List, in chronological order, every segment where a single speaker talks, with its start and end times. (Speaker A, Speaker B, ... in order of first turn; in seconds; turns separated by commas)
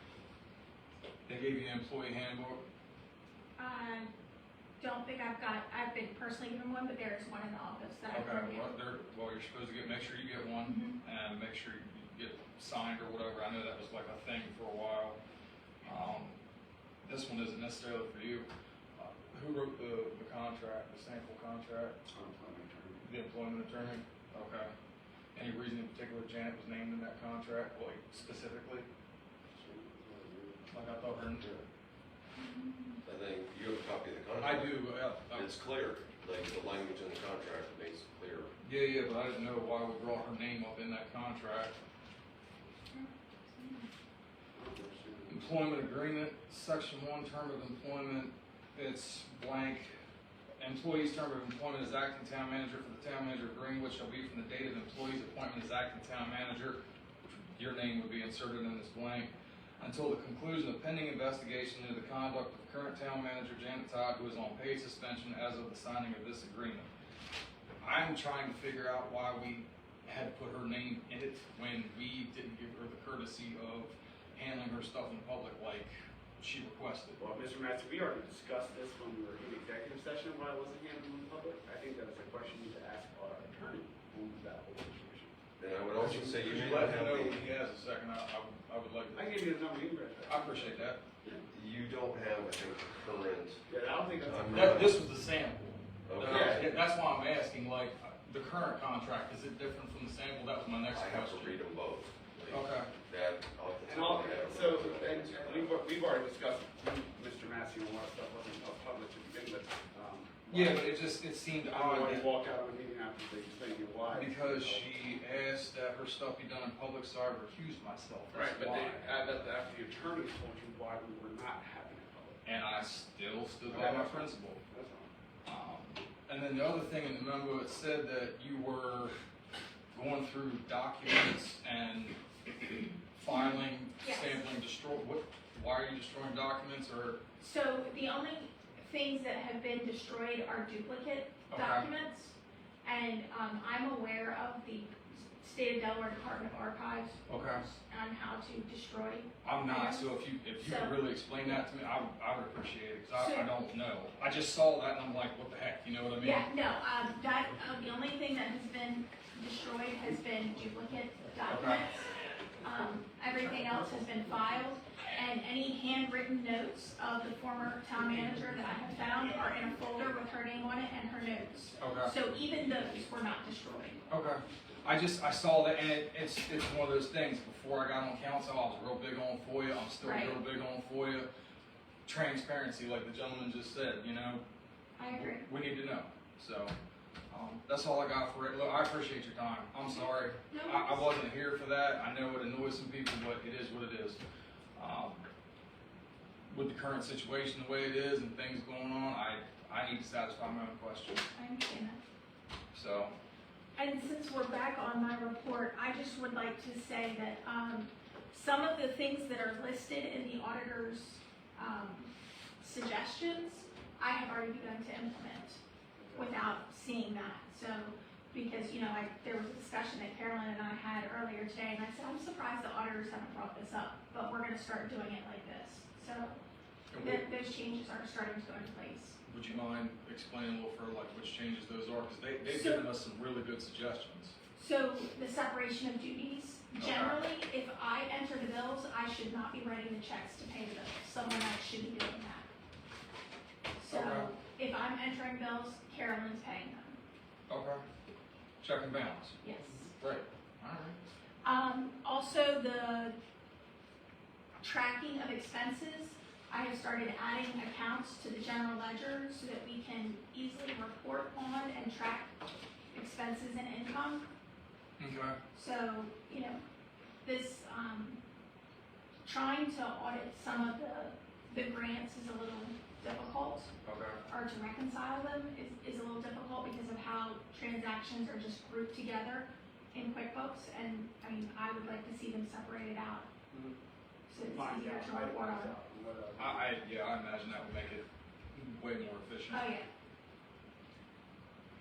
Speaker A: 1.2-2.6, Speaker B: 3.6-4.1, Speaker B: 4.8-8.7, Speaker A: 8.1-15.2, Speaker B: 10.6-11.0, Speaker A: 15.8-16.4, Speaker A: 17.0-22.0, Speaker C: 22.1-23.1, Speaker A: 23.0-24.7, Speaker A: 25.3-28.9, Speaker C: 29.5-30.7, Speaker A: 30.7-31.4, Speaker D: 31.4-31.6, Speaker B: 32.4-33.0, Speaker D: 33.0-38.5, Speaker A: 34.4-35.5, Speaker A: 38.6-41.8, Speaker B: 42.9-43.9, Speaker C: 44.5-45.5, Speaker A: 45.3-49.9, Speaker A: 50.6-66.9, Speaker A: 67.8-77.2, Speaker C: 77.2-85.3, Speaker D: 85.6-87.4, Speaker A: 86.0-89.3, Speaker C: 86.0-86.3, Speaker C: 89.1-91.4, Speaker A: 90.2-91.0, Speaker D: 91.5-93.6, Speaker C: 93.7-95.0, Speaker D: 94.2-94.9, Speaker A: 94.5-95.6, Speaker D: 96.1-96.6, Speaker A: 96.2-101.6, Speaker C: 96.2-96.7, Speaker D: 100.9-105.7, Speaker A: 102.5-102.9, Speaker C: 103.8-110.9, Speaker A: 110.5-112.3, Speaker C: 111.7-114.8, Speaker A: 114.1-119.2, Speaker C: 118.3-122.4, Speaker A: 122.4-124.6, Speaker C: 123.7-125.1, Speaker A: 125.4-129.1, Speaker A: 129.9-132.2, Speaker A: 133.2-137.2, Speaker B: 133.3-134.4, Speaker B: 137.4-151.0, Speaker A: 141.5-141.9, Speaker A: 147.3-147.6, Speaker A: 149.4-156.4, Speaker B: 153.1-153.5, Speaker B: 156.2-174.2, Speaker A: 161.5-161.8, Speaker A: 171.8-172.1, Speaker A: 174.1-181.3, Speaker B: 180.0-180.4, Speaker A: 182.1-184.4, Speaker B: 185.0-185.5, Speaker A: 185.1-186.7, Speaker A: 187.3-194.2, Speaker B: 190.5-191.1, Speaker A: 194.8-195.2, Speaker A: 196.5-201.2, Speaker B: 201.3-202.0, Speaker A: 202.7-203.1, Speaker B: 203.8-215.6, Speaker C: 215.9-216.3, Speaker B: 216.1-226.4, Speaker A: 226.9-227.3, Speaker B: 227.0-229.2, Speaker A: 229.3-234.3, Speaker B: 232.5-232.9, Speaker B: 234.5-242.5, Speaker A: 236.8-237.2, Speaker B: 243.8-247.0, Speaker A: 243.9-244.3, Speaker A: 247.5-247.8, Speaker A: 248.6-249.4, Speaker B: 249.4-249.9, Speaker C: 249.6-249.9, Speaker A: 249.9-251.0, Speaker B: 251.4-253.2, Speaker B: 254.6-262.3, Speaker B: 262.9-264.2, Speaker A: 265.0-265.4, Speaker B: 265.5-266.6, Speaker B: 267.2-268.2, Speaker B: 269.2-273.7, Speaker A: 273.8-274.2, Speaker B: 274.3-283.3, Speaker C: 283.5-283.8, Speaker B: 284.3-285.8, Speaker C: 284.4-286.8, Speaker A: 286.4-289.7, Speaker B: 289.5-289.9